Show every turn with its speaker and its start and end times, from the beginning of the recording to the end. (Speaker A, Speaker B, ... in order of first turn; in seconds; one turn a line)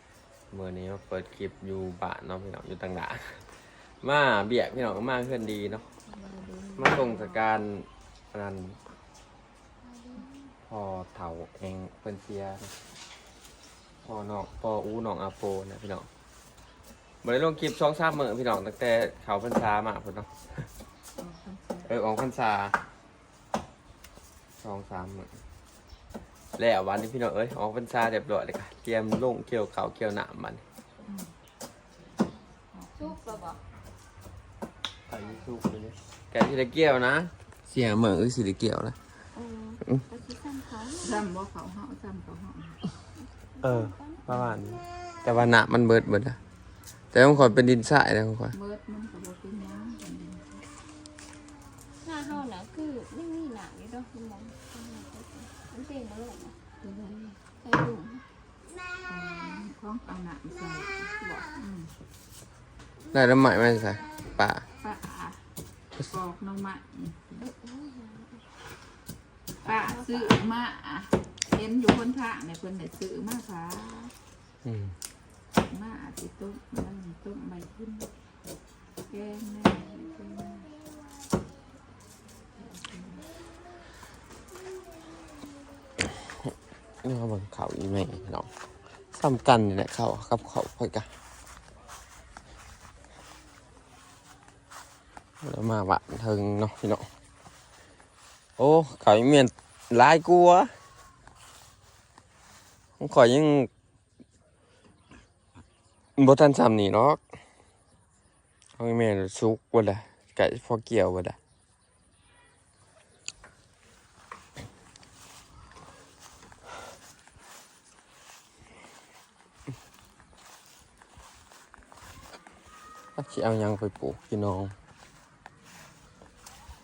Speaker A: 0.5-5.9
Speaker B: 6.0-7.4
Speaker A: 6.8-8.8
Speaker B: 9.9-10.3
Speaker A: 10.7-12.7
Speaker A: 14.0-16.1
Speaker A: 17.2-20.7
Speaker B: 21.2-21.9
Speaker A: 21.9-22.8
Speaker A: 24.6-25.3
Speaker A: 26.6-30.6
Speaker B: 31.1-31.3
Speaker B: 32.7-33.2
Speaker C: 33.0-33.6
Speaker A: 35.1-39.0
Speaker C: 39.3-41.3
Speaker B: 41.0-42.8
Speaker C: 43.1-44.2
Speaker A: 43.6-46.4
Speaker A: 47.1-48.5
Speaker B: 48.5-50.6
Speaker C: 52.0-56.6
Speaker B: 56.8-57.4
Speaker C: 57.6-58.2
Speaker B: 59.1-61.9
Speaker A: 63.1-64.7
Speaker B: 64.8-65.4
Speaker B: 66.1-67.5
Speaker C: 67.4-68.5
Speaker B: 69.6-74.1
Speaker C: 69.7-70.5
Speaker A: 74.6-74.9
Speaker B: 75.6-78.1
Speaker B: 79.1-80.7
Speaker B: 82.6-83.3
Speaker A: 87.0-88.5
Speaker A: 89.1-91.1
Speaker A: 95.4-97.1
Speaker A: 98.6-100.7
Speaker A: 103.0-103.7
Speaker A: 106.2-107.2
Speaker A: 108.8-111.4
Speaker A: 123.2-124.7